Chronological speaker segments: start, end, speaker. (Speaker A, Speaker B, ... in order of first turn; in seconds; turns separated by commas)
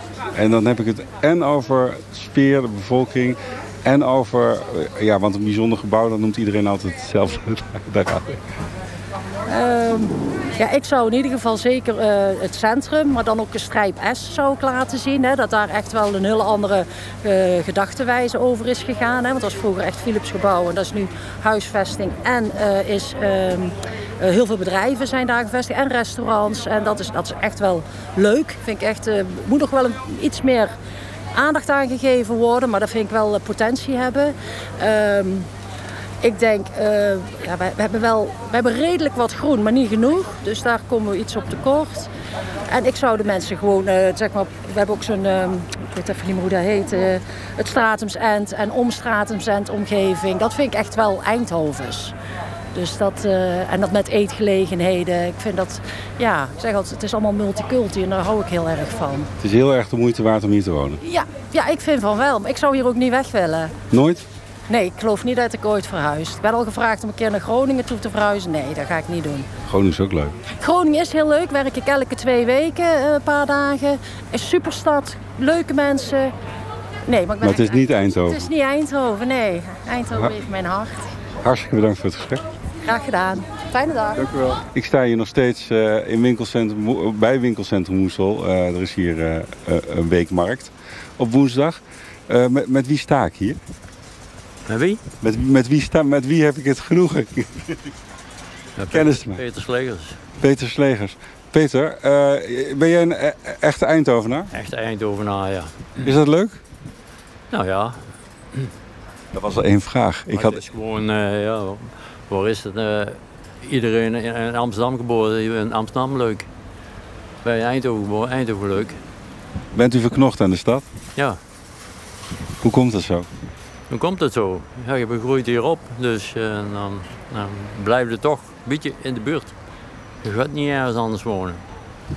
Speaker A: 0.3-8.4, Speaker B: 9.5-30.7, Speaker B: 31.3-35.5, Speaker B: 36.2-42.1, Speaker B: 42.7-52.1, Speaker B: 52.8-59.3, Speaker A: 59.4-61.0, Speaker B: 61.0-63.7, Speaker A: 63.9-64.3, Speaker B: 64.7-69.5, Speaker A: 69.7-70.3, Speaker B: 70.6-76.3, Speaker B: 77.1-81.1, Speaker A: 77.4-78.5, Speaker A: 81.4-82.4, Speaker B: 82.8-84.2, Speaker A: 84.2-93.6, Speaker C: 94.7-95.0, Speaker A: 95.2-97.8, Speaker C: 98.8-100.2, Speaker A: 98.9-99.4, Speaker A: 100.4-104.5, Speaker C: 104.5-106.1, Speaker A: 106.0-106.6, Speaker C: 107.5-108.0, Speaker A: 109.3-110.6, Speaker C: 110.3-116.5, Speaker C: 117.4-119.0, Speaker A: 119.7-120.8, Speaker A: 122.6-123.3, Speaker C: 123.9-129.5, Speaker C: 130.2-131.6